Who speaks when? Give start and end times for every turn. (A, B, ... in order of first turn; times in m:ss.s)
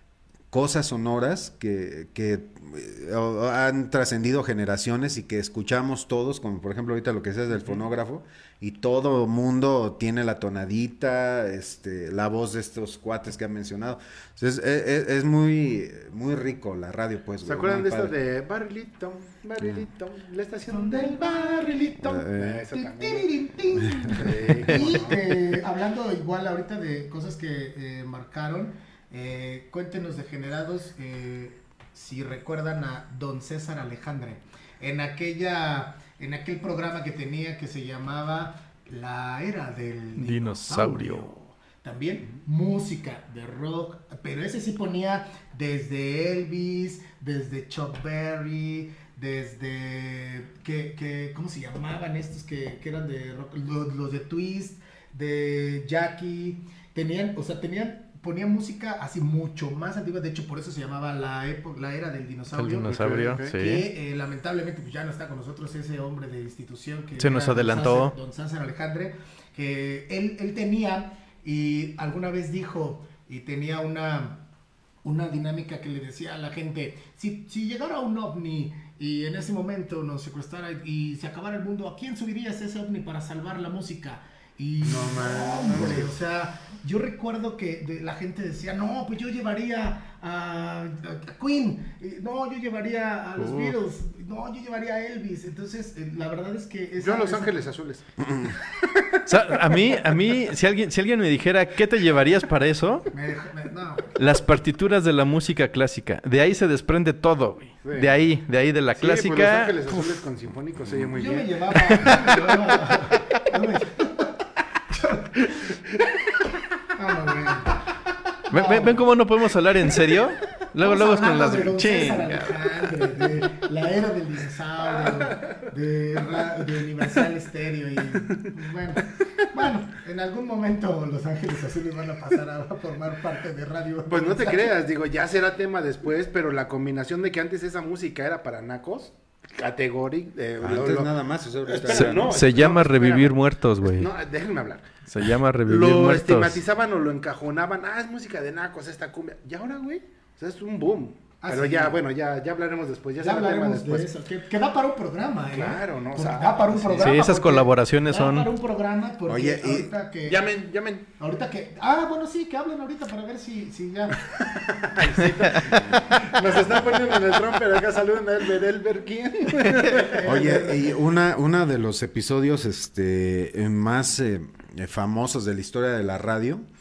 0:00.5-0:18.1 A
0:17.4-0:23.3 B
0:19.6-0:19.9 A
0:20.7-0:22.2 C
0:22.0-0:22.6 A
0:22.7-1:14.4 C
0:24.0-0:25.2 B
0:40.2-0:41.3 D
1:02.5-1:03.9 D
1:02.9-1:03.6 B
1:07.2-1:08.1 D
1:15.0-1:37.7 C
1:24.8-1:26.1 B
1:33.4-1:33.7 D
1:37.0-1:38.0 B
1:39.3-1:43.1 D
1:43.1-1:44.1 C
1:44.2-1:50.2 D
1:47.8-1:48.1 B
1:49.0-1:52.2 B
1:51.2-1:54.3 C
1:54.9-1:55.5 C
1:56.9-1:57.8 C
1:58.5-2:02.8 D
1:58.5-1:59.0 C
2:00.8-2:14.8 C
2:14.1-2:21.1 B
2:20.6-2:22.4 A
2:21.6-2:25.0 B
2:22.1-2:24.1 D
2:25.1-2:26.6 D
2:25.6-2:34.1 B
2:31.4-2:32.0 C
2:33.2-2:40.6 C
2:35.5-2:37.2 B
2:37.0-2:38.5 D
2:39.2-2:39.9 A
2:40.2-2:41.1 B
2:41.2-2:44.4 C
2:44.7-2:50.3 B
2:46.7-2:47.4 A
2:49.9-2:51.0 C
2:50.2-2:56.7 A